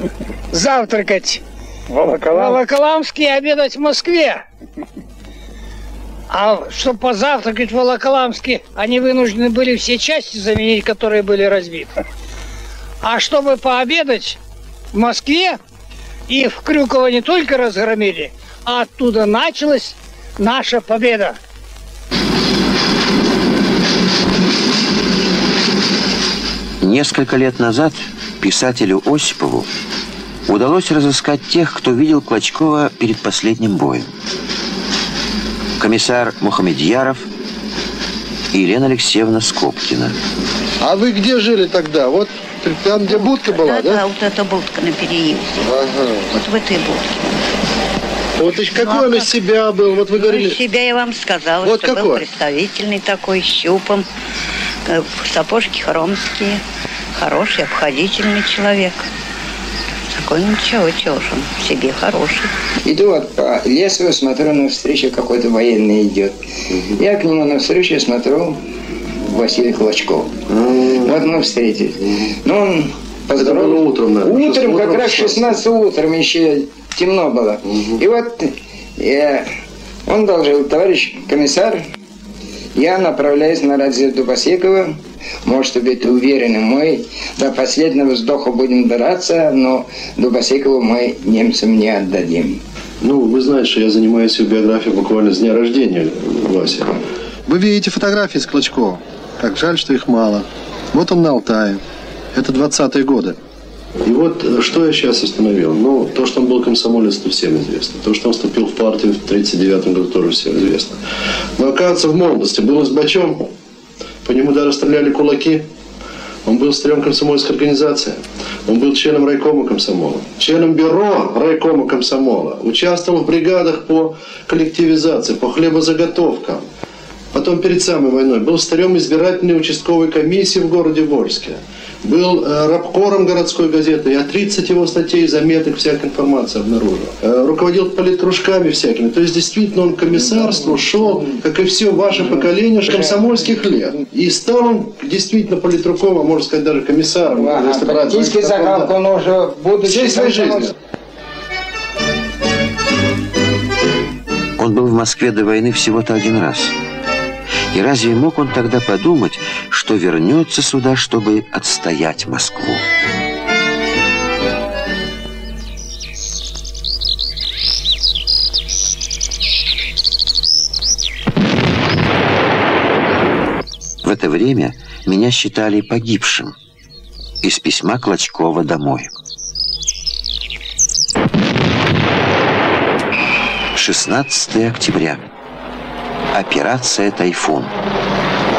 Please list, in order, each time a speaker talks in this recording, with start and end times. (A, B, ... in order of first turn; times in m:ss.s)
0:00.5-0:04.4 A
0:06.3-0:11.9 A
0:13.0-0:14.4 A
0:14.9-0:15.6 A
0:16.3-0:21.4 A
0:26.8-0:29.7 B
0:30.5-0:34.1 B
0:35.8-0:37.3 B
0:38.5-0:40.2 B
0:40.8-0:44.0 C
0:43.0-0:45.5 D
0:45.7-0:46.3 C
0:46.3-0:47.2 D
0:48.4-0:50.6 C
0:48.5-0:49.4 D
0:50.1-0:54.0 D
0:51.6-0:52.2 C
0:54.9-0:56.6 D
0:57.2-0:59.1 D
1:00.1-1:02.5 D
1:02.9-1:08.6 E
1:09.2-1:10.3 E
1:10.5-1:11.1 C
1:11.0-1:19.5 E
1:13.4-1:15.6 C
1:20.1-1:21.8 E
1:22.8-1:32.6 E
1:33.0-1:41.8 C
1:42.4-1:43.4 C
1:44.0-1:51.0 C
1:51.6-1:53.5 C
1:54.2-1:55.7 C
1:56.5-2:06.6 C
2:07.3-2:29.0 C
2:27.3-2:30.7 E
2:29.8-2:30.7 C
2:34.6-2:36.8 B
2:37.7-2:42.8 B
2:54.0-2:56.5 B
2:57.4-2:59.1 B
3:03.7-3:05.2 B
3:06.3-3:07.7 B